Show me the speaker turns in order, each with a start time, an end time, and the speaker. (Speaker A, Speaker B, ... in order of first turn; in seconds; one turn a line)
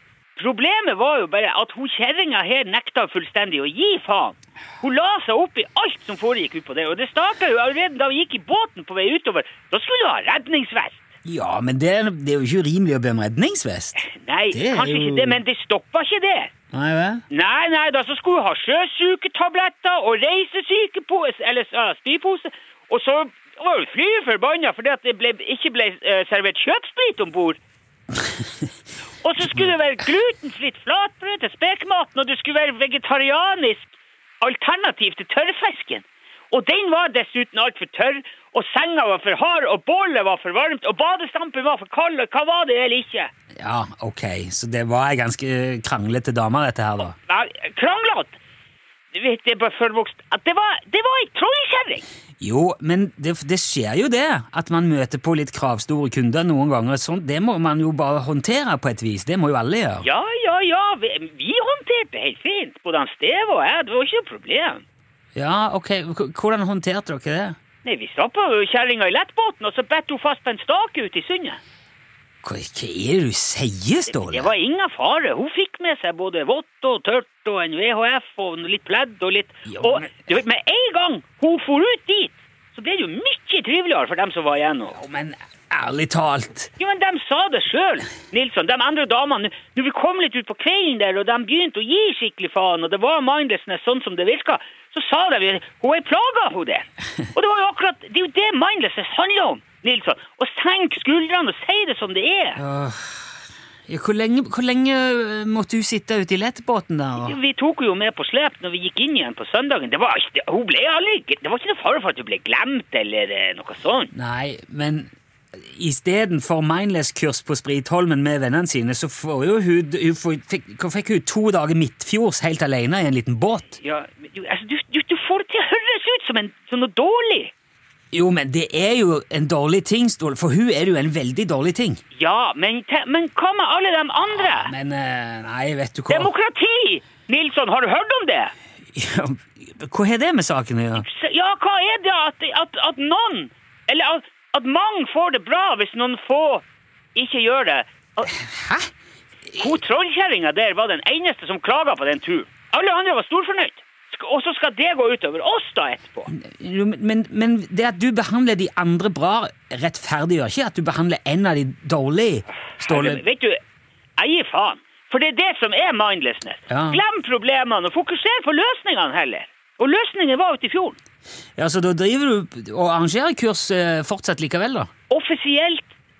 Speaker A: 0.3-11.0
Speaker B: 11.2-15.4
Speaker A: 14.0-16.5
Speaker B: 16.7-17.2
Speaker A: 17.3-27.6
Speaker A: 29.2-43.3
Speaker B: 43.6-47.1
Speaker A: 47.2-48.4
Speaker A: 49.1-52.0
Speaker B: 52.4-60.0
Speaker A: 60.0-64.8
Speaker B: 65.3-67.5
Speaker A: 67.8-71.6
Speaker B: 72.4-74.5
Speaker A: 74.1-85.0
Speaker B: 79.7-80.1
Speaker B: 84.9-86.7
Speaker A: 86.8-102.6
Speaker B: 102.5-103.3
Speaker B: 103.9-107.3
Speaker A: 107.2-114.1
Speaker B: 114.1-123.8
Speaker A: 123.8-127.5
Speaker B: 128.1-132.0
Speaker A: 132.1-134.7
Speaker B: 134.5-136.3
Speaker A: 136.1-138.5
Speaker B: 138.9-141.0
Speaker A: 140.9-146.6
Speaker A: 147.1-148.4
Speaker B: 148.4-148.9
Speaker A: 149.5-156.3
Speaker B: 156.3-163.2
Speaker A: 162.8-163.6
Speaker A: 164.2-171.0
Speaker B: 166.7-167.0
Speaker B: 171.6-174.9
Speaker A: 175.1-175.9